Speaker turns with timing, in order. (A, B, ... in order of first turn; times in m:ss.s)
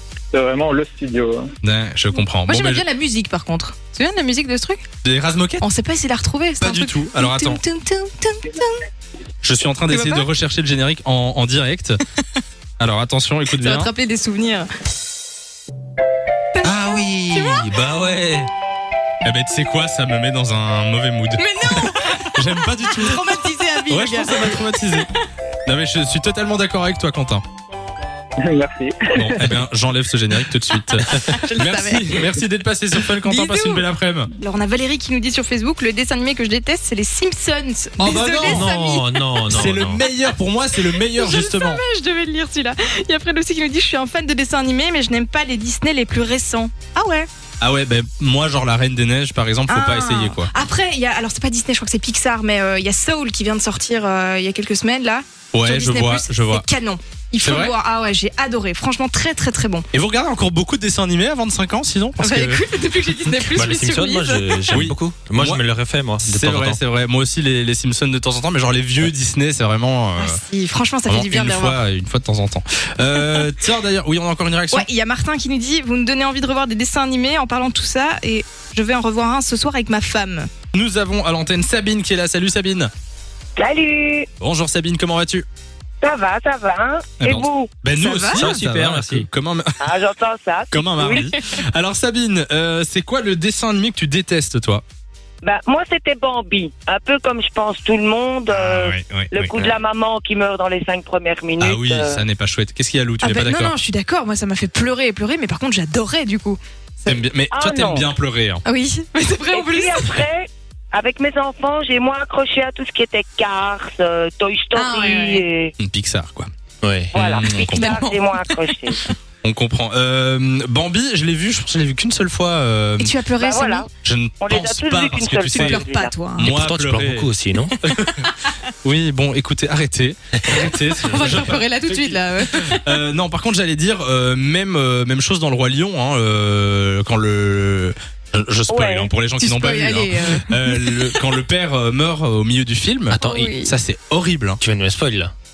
0:00.3-0:01.4 A
0:01.6-0:02.8 B
0:02.4-0:04.8 C
0:05.0-0:05.6 B
0:05.6-0:08.9 C
0:06.6-0:07.6 B
0:09.4-0:12.0 B
0:09.9-0:10.3 C
0:12.8-0:13.9 B
0:13.5-0:14.7 C
0:16.5-0:17.7 C
0:16.6-0:18.5 D
0:19.2-0:23.2 B
0:21.4-0:25.1 C
0:23.9-0:25.1 B
0:25.7-0:27.4 B
0:28.4-0:29.5 A
0:29.2-0:34.3 B
0:31.0-0:32.4 C
0:33.0-0:39.4 C
0:38.0-0:38.7 B
0:38.4-0:40.0 D
0:39.5-0:41.8 B
0:40.0-0:40.3 C
0:40.9-0:47.3 C
0:47.6-0:50.5 B
0:49.7-0:59.8 C
0:55.5-0:56.7 B
0:57.4-0:57.7 B
0:59.9-1:02.6 B
1:02.2-1:04.8 C
1:03.5-1:06.8 D
1:04.7-1:05.6 B
1:06.2-1:10.4 B
1:10.1-1:11.8 C
1:11.1-1:14.9 B
1:14.7-1:20.5 C
1:20.7-1:22.9 B
1:23.6-1:24.3 E
1:24.4-1:25.4 B
1:26.0-1:27.7 E
1:27.2-1:29.8 B
1:27.9-1:28.6 C
1:28.3-1:29.3 D
1:29.8-1:31.3 E
1:30.7-1:34.8 B
1:35.4-1:42.2 E
1:38.5-1:39.7 B
1:41.6-1:43.7 B
1:43.2-1:47.2 C
1:47.0-1:48.6 B
1:47.5-1:48.0 E
1:48.6-1:50.2 C
1:49.5-1:55.7 E
1:54.7-1:55.4 C
1:55.8-1:56.5 B
1:56.8-1:57.1 D
1:57.1-1:59.0 E
1:57.2-1:58.0 B
1:57.7-1:59.1 C
1:59.4-2:03.1 B
2:03.0-2:03.9 C
2:03.4-2:03.9 E
2:04.0-2:05.9 B
2:04.4-2:06.1 E
2:05.5-2:06.6 C
2:06.4-2:07.3 B
2:06.4-2:07.7 D
2:07.8-2:24.6 B
2:07.9-2:08.5 C
2:10.9-2:13.0 C
2:18.7-2:19.1 E
2:19.4-2:21.2 C
2:23.1-2:23.5 D
2:23.2-2:23.7 C
2:24.6-2:25.3 D